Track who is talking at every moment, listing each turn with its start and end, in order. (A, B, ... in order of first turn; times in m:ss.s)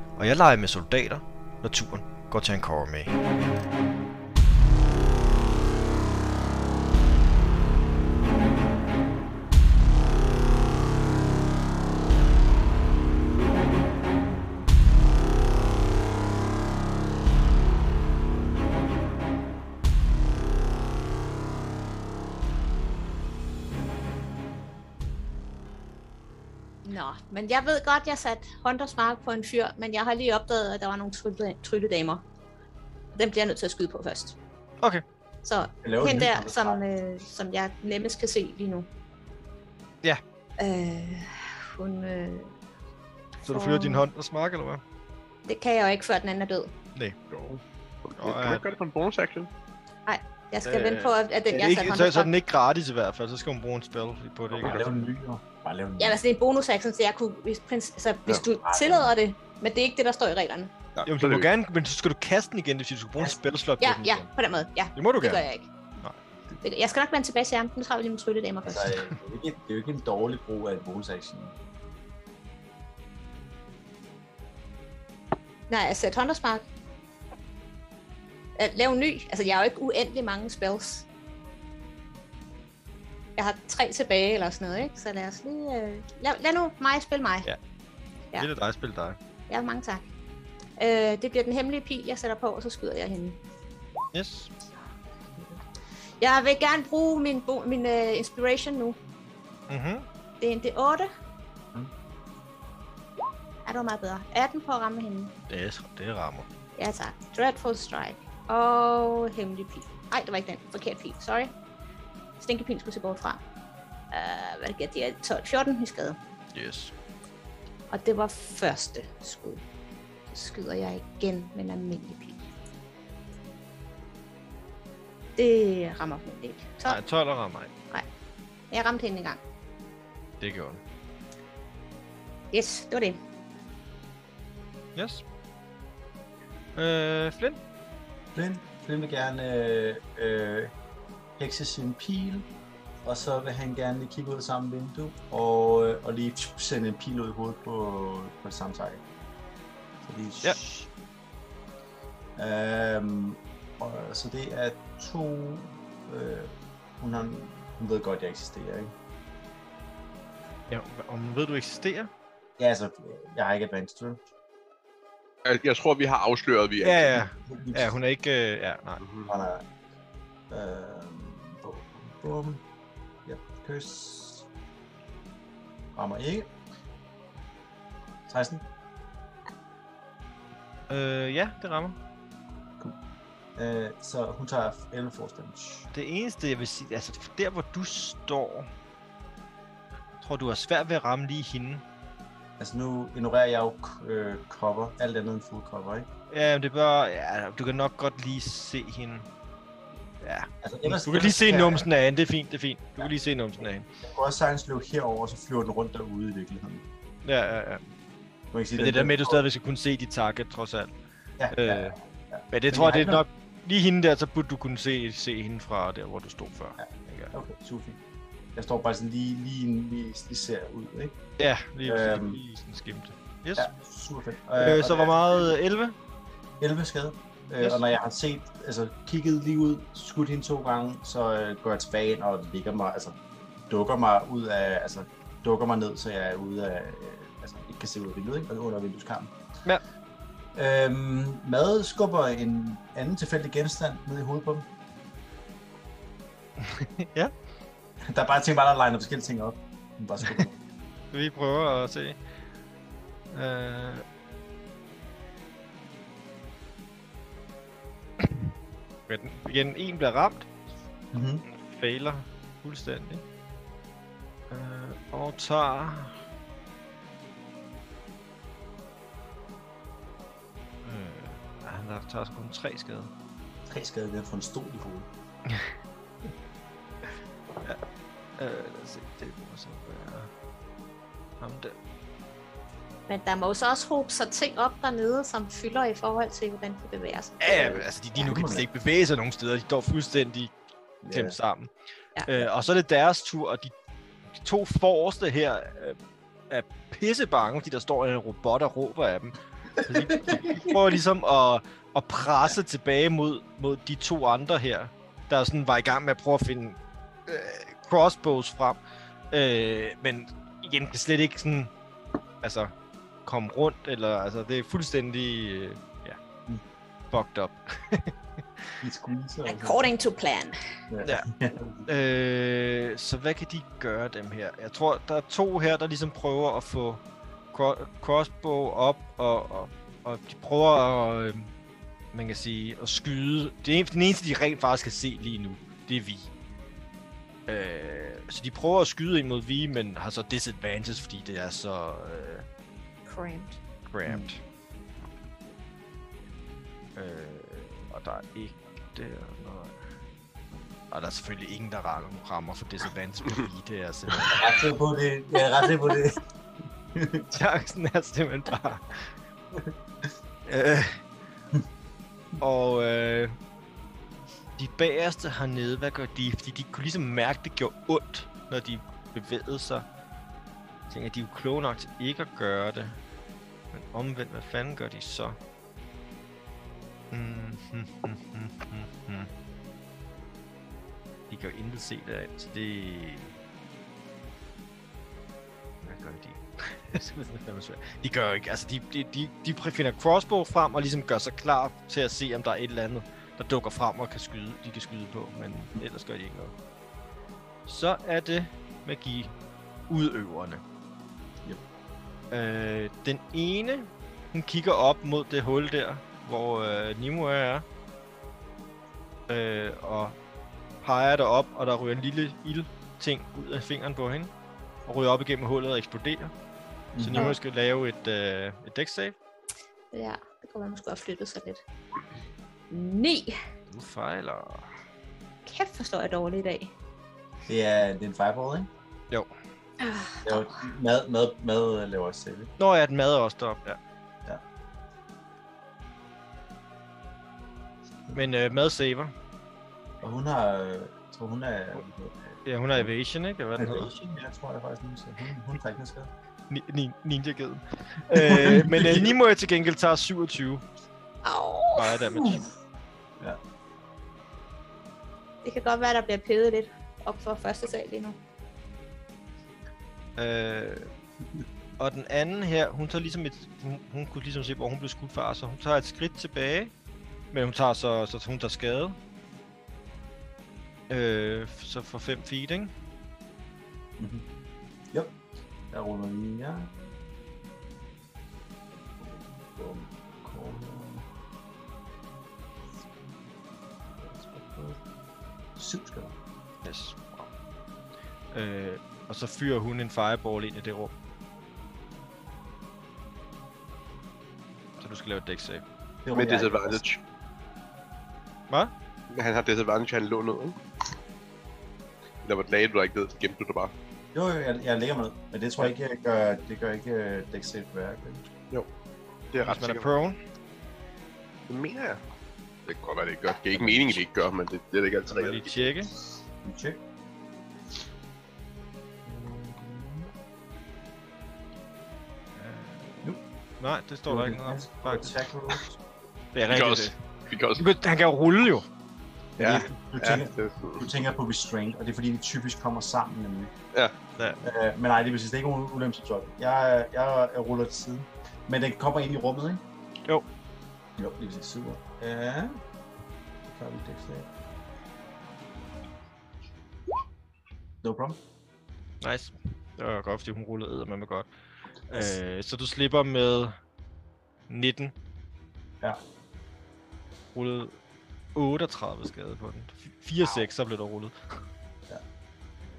0:00.2-0:03.2 A
0:26.8-0:32.2 B
0:33.1-0:34.4 B
0:35.4-0:38.9 B
0:35.8-0:36.8 C
0:40.6-0:42.5 B
0:43.4-0:44.8 A
0:43.5-0:44.0 B
0:45.5-0:46.7 B
0:47.3-0:49.5 D
0:48.2-0:48.6 A
0:50.1-0:52.3 B
0:50.6-0:55.0 A
0:54.6-0:56.2 C
0:56.0-1:00.7 B
0:58.6-0:59.1 C
1:00.9-1:01.5 D
1:01.0-1:04.3 A
1:03.8-1:05.7 B
1:05.0-1:05.4 A
1:06.6-1:09.0 B
1:08.7-1:11.5 C
1:15.7-1:16.6 B
1:18.6-1:21.0 B
1:23.4-1:27.5 B
1:28.4-1:29.2 A
1:29.5-1:30.1 B
1:30.8-1:33.4 B
1:34.1-1:34.5 A
1:36.2-1:39.0 B
1:39.7-1:40.0 A
1:40.4-1:41.1 B
1:43.6-1:45.3 B
1:45.5-1:46.5 A
1:46.8-1:51.5 B
1:52.4-1:53.4 B
1:54.1-1:56.2 B
1:56.5-1:56.9 A
1:57.9-1:59.6 B
2:00.3-2:02.4 B
2:05.4-2:07.0 B
2:06.8-2:07.7 A
2:08.7-2:09.4 B
2:10.4-2:10.8 A
2:12.5-2:13.2 B
2:15.0-2:15.2 A
2:16.8-2:17.6 A
2:18.3-2:20.7 C
2:21.4-2:22.5 C
2:23.0-2:29.0 C
2:30.0-2:30.9 C
2:32.4-2:38.9 C
2:40.7-2:42.1 A
2:42.6-2:44.2 C
2:45.4-2:47.2 D
2:46.8-2:49.0 A
2:47.4-2:47.9 C
2:49.0-2:49.3 D
2:49.3-2:49.6 C
2:50.5-2:52.6 C
2:53.2-2:54.5 C
2:55.9-2:56.5 C
2:58.3-2:58.6 C
3:00.9-3:02.0 A
3:03.6-3:05.9 C
3:05.9-3:08.7 A
3:10.2-3:11.8 A
3:12.6-3:16.1 C
3:16.3-3:19.3 A
3:20.2-3:23.8 A
3:20.6-3:21.9 C
3:24.0-3:26.8 C
3:27.2-3:27.8 A
3:28.5-3:29.4 C
3:28.8-3:30.9 A
3:31.4-3:33.2 C
3:31.5-3:32.0 A
3:32.5-3:37.3 A
3:36.8-3:38.0 C
3:38.5-3:41.2 C
3:41.4-3:43.7 A
3:41.8-3:42.4 C
3:43.6-3:45.6 C
3:44.6-3:45.9 A
3:46.6-3:59.3 C
4:00.5-4:04.7 C
4:06.6-4:07.3 A
4:08.0-4:10.6 C
4:11.1-4:12.2 A
4:13.3-4:14.0 A
4:18.2-4:18.5 A
4:19.1-4:20.5 A
4:21.1-4:21.4 C
4:21.4-4:23.2 A
4:24.5-4:26.2 A
4:30.8-4:33.1 A
4:33.7-4:35.1 C
4:38.4-4:40.3 A
4:41.4-4:41.7 A
4:43.1-4:47.8 B
4:47.4-4:50.5 A
4:47.6-4:48.7 C
4:51.0-4:51.4 C
4:51.1-4:51.7 A
4:52.2-4:53.7 A
4:54.4-4:56.0 A
4:56.5-5:08.8 A
4:59.9-5:00.8 C
5:09.3-5:11.7 A
5:12.4-5:12.7 A
5:13.2-5:16.2 A
5:17.1-5:18.8 A
5:18.8-5:19.9 C
5:19.4-5:20.6 B
5:20.9-5:21.8 C
5:21.0-5:21.3 A
5:21.8-5:27.0 A
5:27.5-5:31.5 A
5:32.1-5:36.3 A
5:37.5-5:42.4 A
5:43.0-5:43.6 B
5:43.9-5:44.4 A
5:47.0-5:49.8 A
5:50.9-5:54.6 A
5:54.3-5:56.2 C
5:56.9-5:57.3 C
5:57.3-5:59.1 A
6:00.4-6:01.0 A
6:02.4-6:03.3 A
6:04.6-6:09.8 A
6:10.9-6:13.0 A
6:13.7-6:15.4 A
6:17.1-6:19.3 A
6:21.3-6:23.4 A
6:25.8-6:36.5 A
6:37.7-6:39.3 A
6:39.9-6:40.6 A
6:42.3-6:47.6 A
6:49.3-6:50.2 A
6:50.8-6:54.3 A
6:54.9-6:56.3 A
6:56.9-6:57.4 C
6:57.0-6:59.1 A
6:59.9-7:01.6 B
7:02.7-7:03.3 B
7:03.7-7:04.7 A
7:05.4-7:06.7 B
7:07.5-7:08.7 C
7:09.8-7:10.6 B
7:10.2-7:12.5 C
7:12.6-7:13.8 A
7:18.1-7:19.1 A
7:20.0-7:22.9 C
7:22.4-7:23.9 A
7:23.6-7:26.1 C
7:26.5-7:30.6 A
7:28.1-7:29.1 C
7:31.2-7:32.0 B
7:31.8-7:32.4 A
7:32.1-7:32.4 C
7:35.4-7:38.2 B
7:40.2-7:40.9 A
7:41.8-7:46.7 A
7:47.3-7:49.0 A
7:50.9-7:52.7 A
7:54.0-7:54.2 C
7:55.7-7:56.9 C
7:59.0-8:01.0 C
8:04.0-8:04.8 C
8:05.6-8:06.1 C
8:06.6-8:07.3 A
8:08.3-8:10.9 A
8:14.8-8:15.6 A
8:16.0-8:16.8 C
8:16.1-8:17.0 D
8:19.1-8:20.6 D
8:22.2-8:23.7 D
8:24.1-8:28.2 C
8:29.3-8:29.9 D
8:29.4-8:30.2 A
8:31.5-8:32.0 D
8:32.6-8:35.9 D
8:33.5-8:34.0 A
8:35.1-8:35.9 A
8:36.4-8:36.8 C
8:39.0-8:40.1 C
8:42.4-8:45.2 A
8:44.1-8:45.8 C
8:46.3-8:47.0 A
8:46.5-8:47.6 D
8:47.6-8:48.6 A
8:49.4-8:53.5 C
8:49.4-8:50.9 D
8:54.4-8:59.6 C
9:01.0-9:02.6 C
9:03.4-9:04.3 C
9:07.8-9:08.2 C
9:09.0-9:11.3 A
9:11.9-9:13.5 A
9:14.5-9:14.9 A
9:17.3-9:17.7 A
9:18.3-9:21.4 A